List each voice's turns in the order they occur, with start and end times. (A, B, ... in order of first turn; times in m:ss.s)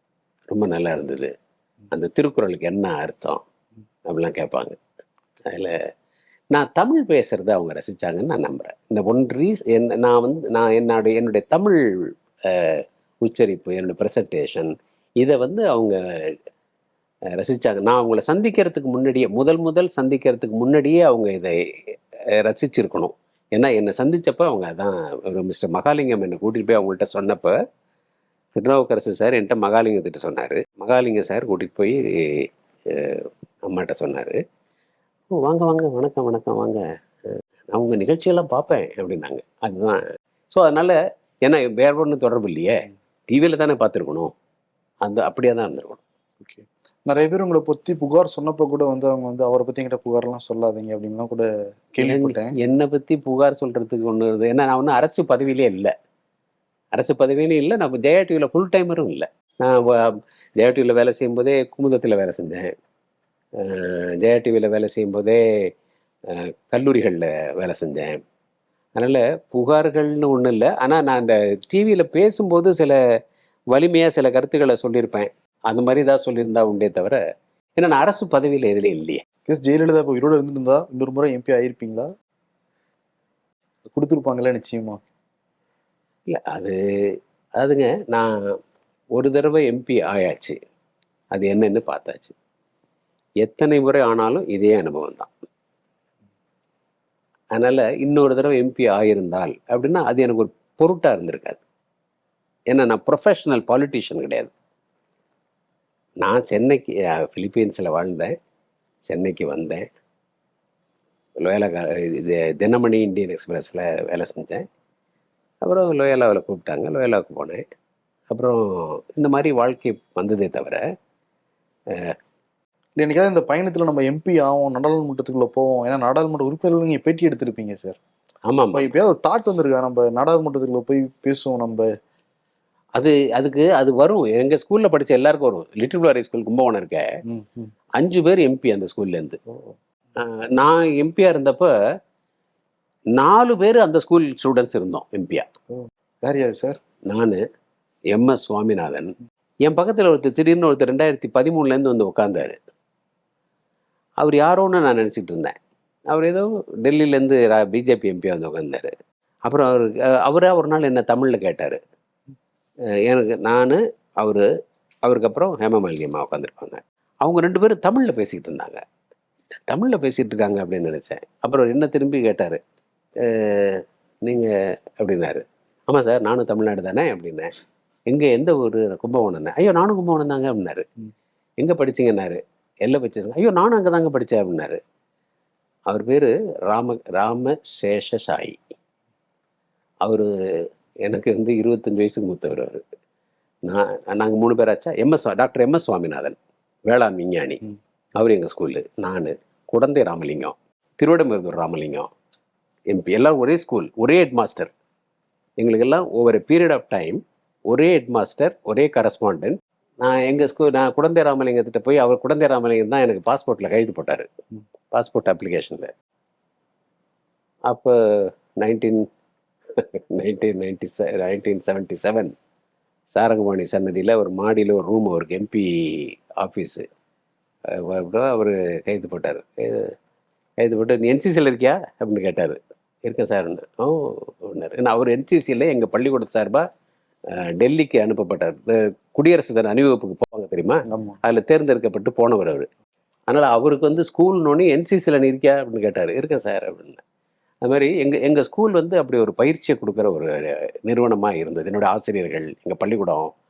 0:00.5-0:01.3 A
0:01.9-0:03.4 A
0:04.1-0:04.8 A
0:05.4-0:05.8 A
0:06.5-0:16.4 A
0:17.3-0:27.6 A
0:28.5-0:34.4 A
0:35.3-0:44.3 A
0:45.0-0:46.0 A
0:46.4-0:52.5 B
0:52.0-0:55.9 A
0:56.9-1:02.7 A
1:03.6-1:05.7 A
1:06.3-1:08.2 A
1:09.0-1:13.0 A
1:13.7-1:17.2 A
1:17.8-1:19.2 A
1:19.5-1:22.1 B
1:23.9-1:25.0 B
1:26.3-1:28.6 A
1:29.1-1:30.6 A
1:31.3-1:32.3 A
1:33.4-1:35.3 A
1:37.5-1:41.6 A
1:42.7-1:44.5 A
1:46.2-1:48.3 A
1:49.1-1:49.9 A
1:51.4-1:54.6 A
1:55.6-1:57.6 A
1:58.3-2:00.8 A
2:01.9-2:02.1 A
2:03.0-2:08.0 B
2:08.5-2:08.9 A
2:08.7-2:11.9 B
2:13.0-2:17.1 A
2:17.2-2:17.7 B
2:18.0-2:19.4 A
2:20.2-2:21.7 A
2:23.1-2:25.5 A
2:25.7-2:26.8 B
2:27.0-2:27.4 A
2:28.1-2:32.6 A
2:34.2-2:35.6 A
2:36.1-2:38.9 A
2:39.4-2:41.8 A
2:43.0-2:44.4 A
2:45.0-2:48.8 A
2:49.7-2:52.6 A
2:53.2-2:57.5 A
2:58.1-3:00.9 A
3:01.6-3:04.8 A
3:05.9-3:08.6 A
3:10.0-3:12.8 A
3:13.6-3:17.6 A
3:18.1-3:22.1 A
3:22.9-3:24.7 A
3:25.6-3:34.3 A
3:34.9-3:35.9 A
3:37.7-3:39.1 A
3:39.7-3:42.3 A
3:43.1-3:46.8 A
3:47.7-3:49.9 A
3:50.6-3:56.6 A
3:57.3-4:02.7 A
4:00.9-4:01.2 B
4:03.3-4:07.0 A
4:07.6-4:13.3 A